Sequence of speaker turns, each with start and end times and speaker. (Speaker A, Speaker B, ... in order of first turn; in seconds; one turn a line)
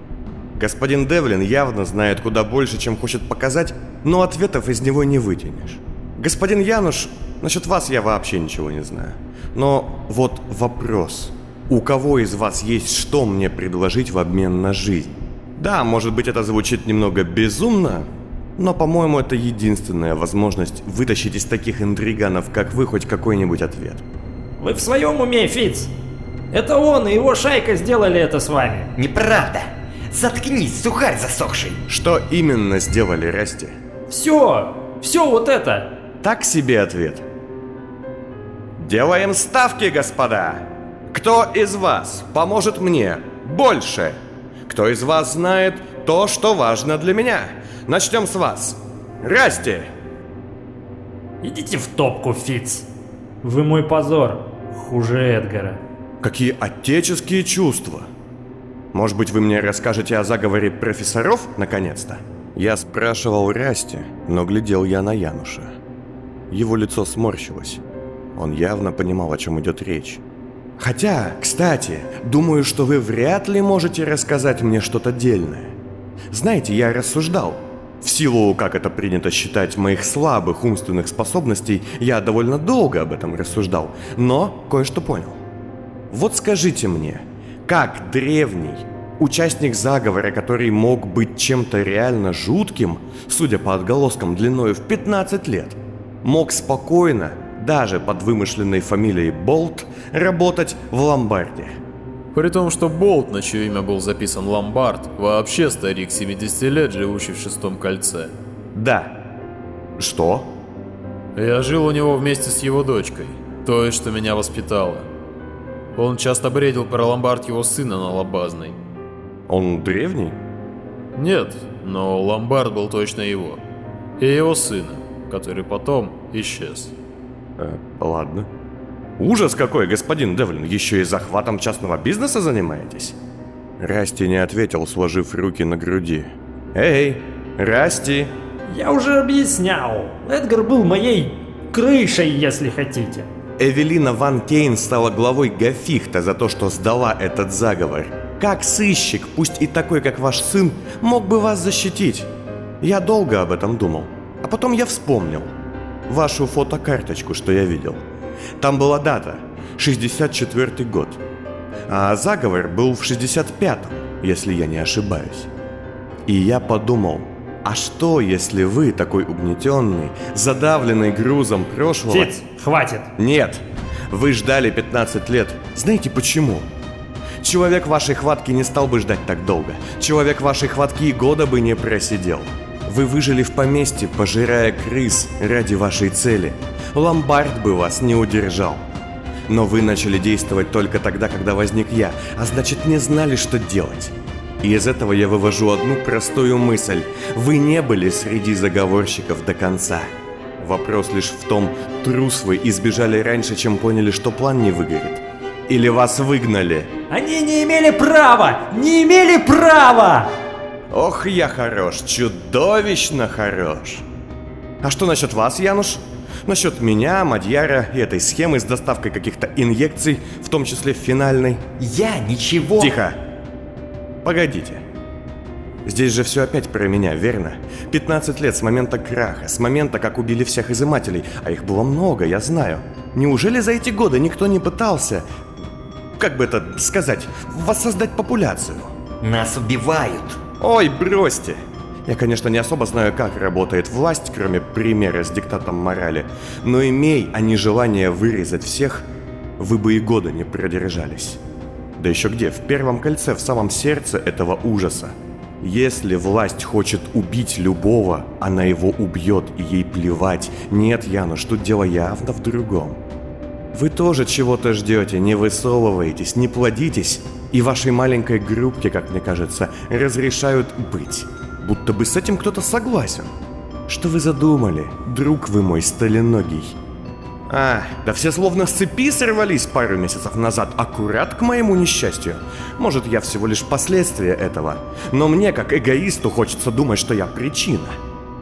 Speaker A: 0.6-24.0
Speaker B: 24.6-25.9
Speaker B: 26.5-28.9
Speaker C: 29.0-31.8
Speaker A: 31.9-33.8
Speaker B: 34.1-35.9
Speaker A: 36.2-37.3
Speaker A: 38.8-49.9
Speaker B: 51.4-52.9
Speaker B: 53.4-55.8
Speaker A: 56.2-58.1
Speaker A: 58.9-65.8
Speaker A: 66.5-67.8
Speaker A: 68.4-70.2
Speaker A: 70.8-75.8
Speaker A: 76.3-85.4
Speaker A: 86.1-101.8
Speaker D: 102.3-108.3
Speaker A: 108.7-109.2
Speaker A: 110.0-110.5
Speaker D: 111.4-115.1
Speaker D: 116.0-118.8
Speaker A: 119.5-120.4
Speaker D: 121.2-123.6
Speaker D: 124.2-126.9
Speaker A: 127.6-128.5
Speaker A: 129.2-133.2
Speaker A: 133.8-138.3
Speaker B: 138.7-143.3
Speaker A: 143.6-152.3
Speaker A: 152.8-155.5
Speaker A: 156.1-158.0
Speaker A: 158.6-161.2
Speaker A: 161.9-165.5
Speaker A: 166.3-172.3
Speaker B: 172.1-173.1
Speaker A: 173.2-176.7
Speaker A: 177.4-188.9
Speaker A: 189.5-206.9
Speaker B: 207.1-210.3
Speaker A: 210.9-214.1
Speaker A: 214.8-221.6
Speaker C: 221.8-223.0
Speaker A: 222.8-223.2
Speaker A: 224.2-224.8
Speaker A: 225.9-235.3
Speaker A: 236.2-238.9
Speaker C: 239.2-240.4
Speaker A: 240.6-251.4
Speaker A: 252.0-263.0
Speaker A: 263.7-273.3
Speaker A: 273.9-276.8
Speaker A: 277.5-288.0